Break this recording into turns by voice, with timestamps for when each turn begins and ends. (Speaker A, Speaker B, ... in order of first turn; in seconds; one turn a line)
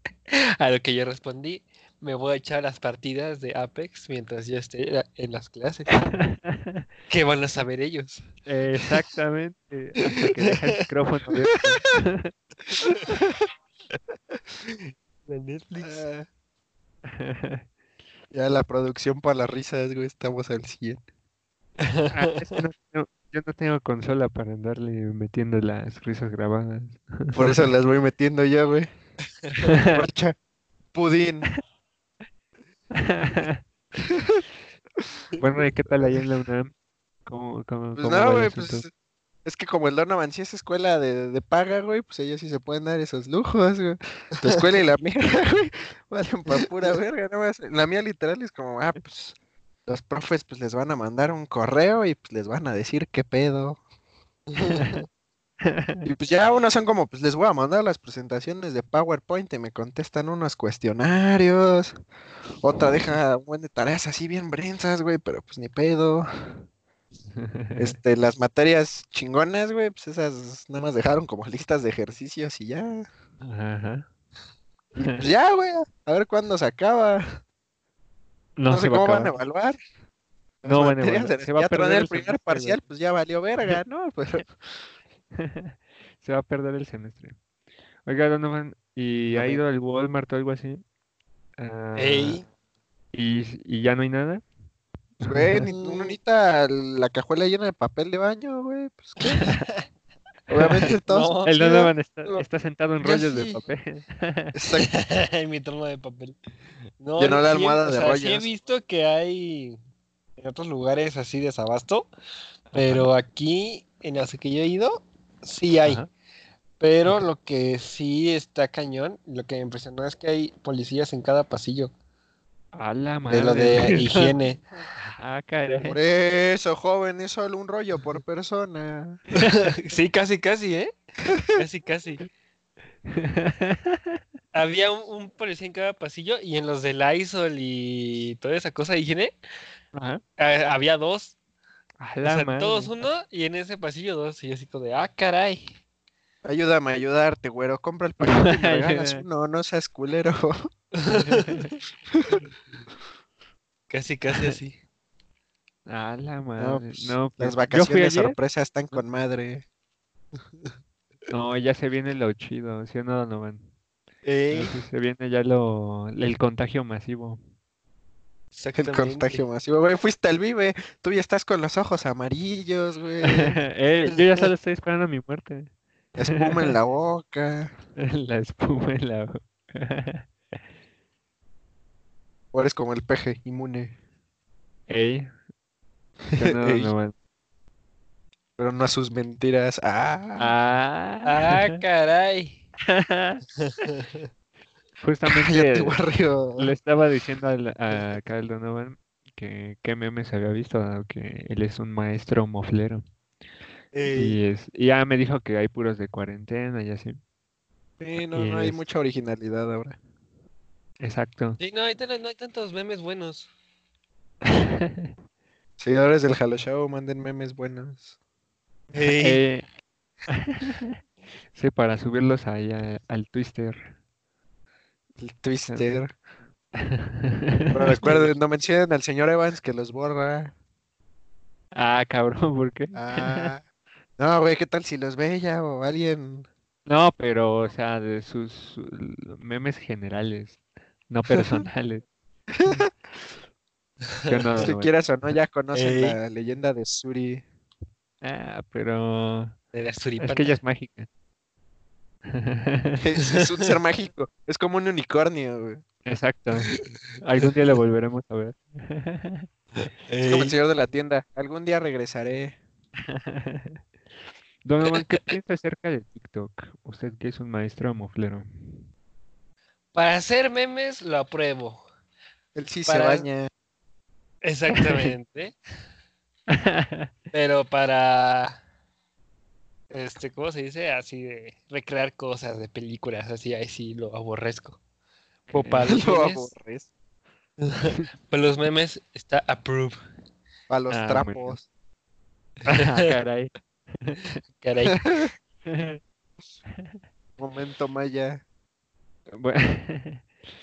Speaker A: 0.3-6.1
Speaker B: 6.1-6.8
Speaker A: 7.1-8.2
Speaker B: 8.4-12.3
Speaker A: 10.4-10.8
Speaker A: 14.6-16.0
Speaker C: 15.8-16.3
Speaker B: 17.1-17.6
Speaker C: 18.3-21.0
Speaker A: 21.8-22.6
Speaker B: 22.1-27.6
Speaker C: 27.3-28.9
Speaker B: 29.6-30.0
Speaker C: 29.8-30.4
Speaker C: 30.9-31.5
Speaker B: 32.9-33.6
Speaker C: 34.1-34.4
Speaker B: 35.4-36.7
Speaker B: 37.2-38.9
Speaker C: 38.0-38.9
Speaker C: 39.4-49.3
Speaker C: 49.9-53.8
Speaker A: 54.6-55.0
Speaker B: 54.7-55.0
Speaker B: 55.6-56.0
Speaker C: 56.0-62.0
Speaker C: 62.6-66.5
Speaker B: 67.3-68.0
Speaker C: 67.8-73.1
Speaker B: 73.4-74.1
Speaker C: 75.0-77.4
Speaker B: 75.0-75.3
Speaker B: 78.6-79.3
Speaker C: 78.7-79.8
Speaker C: 80.6-84.5
Speaker B: 80.6-82.8
Speaker B: 85.3-87.3
Speaker B: 88.0-90.8
Speaker C: 89.3-89.6
Speaker B: 91.6-92.4
Speaker A: 92.0-92.5
Speaker B: 93.1-94.4
Speaker B: 95.2-95.7
Speaker C: 95.2-99.5
Speaker A: 95.7-96.2
Speaker A: 99.3-99.8
Speaker C: 100.5-102.3
Speaker A: 100.8-101.5
Speaker B: 101.4-104.5
Speaker C: 103.0-103.6
Speaker C: 104.5-104.9
Speaker A: 104.8-106.4
Speaker A: 107.0-109.8
Speaker C: 107.2-108.5
Speaker A: 110.4-112.1
Speaker B: 112.7-113.1
Speaker A: 112.7-116.0
Speaker B: 115.8-116.1
Speaker A: 116.8-121.9
Speaker B: 122.7-124.3
Speaker A: 123.3-124.6
Speaker B: 125.0-126.0
Speaker C: 125.8-129.2
Speaker A: 129.4-130.9
Speaker A: 131.5-132.3
Speaker B: 133.1-134.2
Speaker A: 134.5-139.3
Speaker B: 139.9-140.2
Speaker A: 140.4-141.3
Speaker B: 142.0-142.9
Speaker A: 142.2-145.8
Speaker C: 146.4-150.7
Speaker B: 148.2-149.2
Speaker A: 151.0-151.7
Speaker B: 151.2-151.7
Speaker C: 152.1-152.4
Speaker A: 153.9-154.8
Speaker B: 155.9-158.4
Speaker C: 156.6-159.6
Speaker B: 161.3-163.7
Speaker A: 164.2-164.8
Speaker B: 164.5-167.4
Speaker A: 168.5-169.4
Speaker C: 168.8-173.6
Speaker B: 173.2-175.7
Speaker C: 176.1-177.7
Speaker B: 176.3-176.7
Speaker B: 178.0-180.3
Speaker C: 182.5-183.9
Speaker B: 184.9-185.3
Speaker C: 186.3-186.9
Speaker B: 186.4-187.1
Speaker C: 188.6-190.5
Speaker B: 190.4-191.8
Speaker A: 191.2-192.6
Speaker B: 192.9-193.4
Speaker A: 193.6-194.3
Speaker B: 195.0-195.9
Speaker C: 195.2-196.7
Speaker B: 196.6-203.0
Speaker A: 203.9-204.4
Speaker B: 204.1-207.2
Speaker C: 208.0-210.0
Speaker B: 208.3-208.8
Speaker B: 211.0-211.6
Speaker A: 211.6-213.5
Speaker B: 214.4-215.1
Speaker C: 215.8-218.1
Speaker A: 218.9-219.4
Speaker B: 219.2-219.6
Speaker B: 220.3-220.9
Speaker B: 221.5-223.9
Speaker C: 225.2-226.1
Speaker B: 226.8-228.3
Speaker C: 227.7-230.5
Speaker B: 231.7-233.5
Speaker C: 232.9-233.6
Speaker C: 234.2-236.5
Speaker B: 236.8-240.6
Speaker B: 241.1-242.0
Speaker C: 242.5-242.9
Speaker B: 244.3-244.9
Speaker C: 244.6-247.4
Speaker A: 245.7-246.2
Speaker B: 248.2-249.5
Speaker A: 249.7-250.6
Speaker B: 250.2-251.1
Speaker B: 252.3-253.0
Speaker C: 253.0-255.8
Speaker A: 253.2-253.6
Speaker B: 256.1-259.5
Speaker A: 259.8-260.5
Speaker C: 260.2-262.6
Speaker B: 263.1-263.8
Speaker B: 264.6-268.8
Speaker A: 269.9-271.8
Speaker C: 272.5-273.5
Speaker A: 272.9-273.3
Speaker A: 274.4-275.5
Speaker B: 274.7-275.1
Speaker B: 276.5-277.1
Speaker A: 277.3-278.6
Speaker A: 279.9-284.8
Speaker B: 285.5-286.0
Speaker A: 285.5-286.5
Speaker C: 285.8-286.9
Speaker A: 287.6-290.0
Speaker C: 290.7-291.6
Speaker B: 290.9-291.6
Speaker A: 292.7-293.1
Speaker B: 292.7-294.2
Speaker A: 294.6-295.0
Speaker C: 294.9-295.3
Speaker B: 295.6-296.0
Speaker C: 297.4-298.4
Speaker B: 299.3-300.2